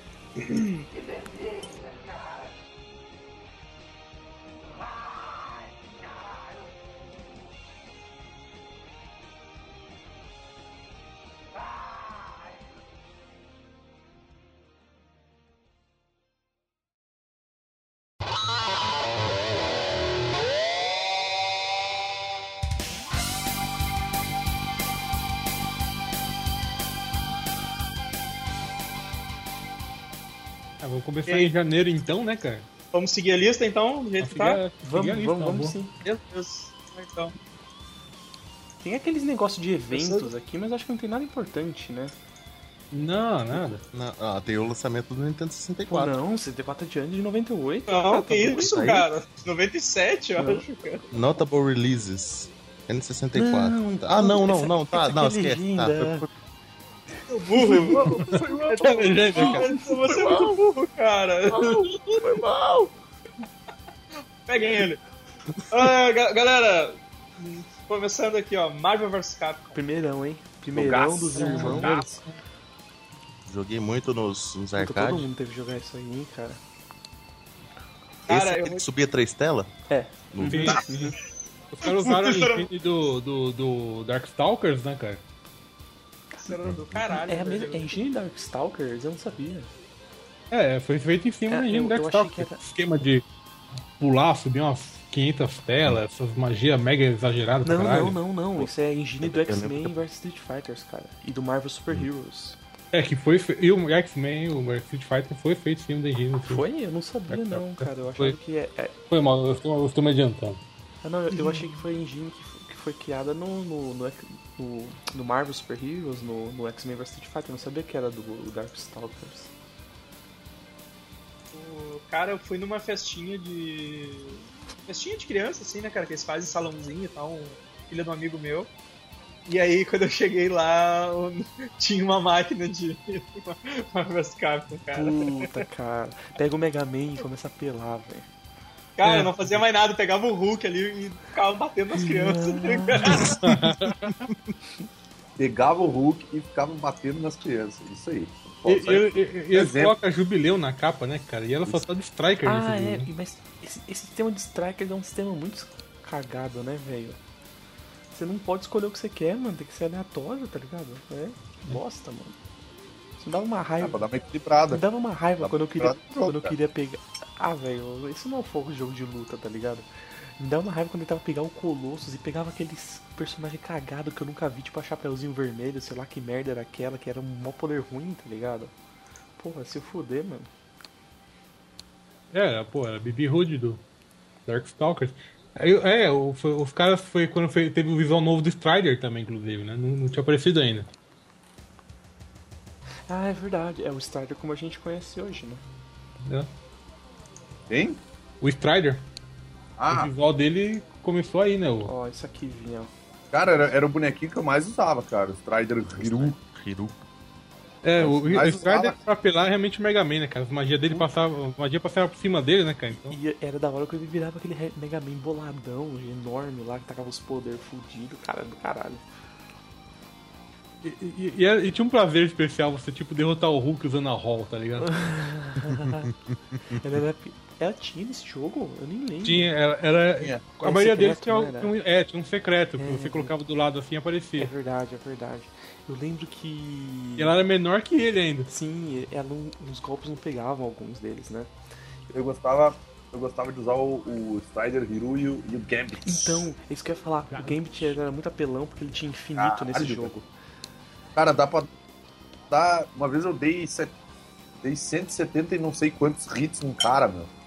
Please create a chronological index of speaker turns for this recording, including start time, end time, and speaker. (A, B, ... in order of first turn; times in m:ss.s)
0:00.4-0:00.8 A
0:30.8-0:32.6 B
0:31.2-0:31.5 A
0:32.9-0:34.6 A
0:34.2-0:35.8 B
0:34.8-0:35.9 C
0:36.0-0:37.3 A
0:38.8-0:42.1 C
0:39.9-0:40.2 A
0:42.9-0:43.8 B
0:43.9-0:46.2 D
0:45.9-0:48.8 C
0:47.9-0:51.0 A
0:48.4-0:49.1 D
0:51.1-0:56.3 D
0:53.3-0:56.2 C
0:57.3-1:02.3 A
0:57.9-0:58.8 E
0:58.2-1:00.6 D
0:58.8-0:59.7 B
1:01.5-1:02.9 D
1:04.4-1:05.0 A
1:05.5-1:05.8 D
1:05.7-1:09.8 A
1:09.7-1:11.9 C
1:10.7-1:12.1 E
1:11.4-1:12.3 B
1:13.4-1:15.3 D
1:14.8-1:16.6 C
1:18.2-1:19.7 D
1:18.3-1:18.8 A
1:19.9-1:21.1 C
1:20.3-1:20.8 D
1:20.4-1:21.0 B
1:21.8-1:25.2 B
1:21.8-1:22.7 A
1:26.4-1:28.0 A
1:26.6-1:27.0 D
1:27.2-1:29.7 C
1:30.5-1:33.2 B
1:31.5-1:32.6 C
1:34.0-1:38.2 B
1:37.6-1:42.6 C
1:39.2-1:40.0 D
1:42.9-1:46.6 B
1:46.4-1:48.9 C
1:47.3-1:47.6 D
1:47.8-1:48.4 B
1:49.1-1:50.6 B
1:51.0-1:59.5 C
2:01.5-2:08.7 A
2:09.5-2:15.6 A
2:14.9-2:18.3 C
2:19.0-2:23.4 A
2:19.0-2:19.3 B
2:22.0-2:23.4 C
2:23.2-2:24.2 B
2:25.4-2:29.9 E
2:28.7-2:33.1 B
2:32.4-2:37.2 C
2:38.1-2:42.4 C
2:43.2-2:44.0 C
2:43.8-2:44.8 E
2:44.7-2:49.9 C
2:45.4-2:46.5 E
2:50.4-2:58.7 C
2:59.4-3:00.5 C
3:02.3-3:03.8 B
3:04.5-3:10.9 B
3:13.1-3:15.6 C
3:16.2-3:16.5 B
3:17.7-3:18.0 E
3:18.4-3:19.0 B
3:19.8-3:20.1 E
3:19.9-3:21.9 B
3:21.8-3:22.9 C
3:23.3-3:26.4 E
3:25.9-3:27.0 D
3:27.8-3:33.2 B
3:28.0-3:29.0 E
3:33.1-3:39.0 C
3:40.8-3:44.9 B
3:44.8-3:46.1 C
3:45.7-3:46.8 D
3:46.7-3:49.5 C
3:49.2-3:54.5 B
3:50.6-3:51.7 C
3:52.8-3:53.3 C
3:54.4-3:57.4 C
3:57.2-3:58.5 B
3:58.5-4:01.5 C
4:02.1-4:06.5 E
4:06.0-4:10.3 C
4:07.3-4:08.0 B
4:09.4-4:10.1 E
4:11.2-4:11.7 E
4:12.5-4:13.9 E
4:14.6-4:17.3 E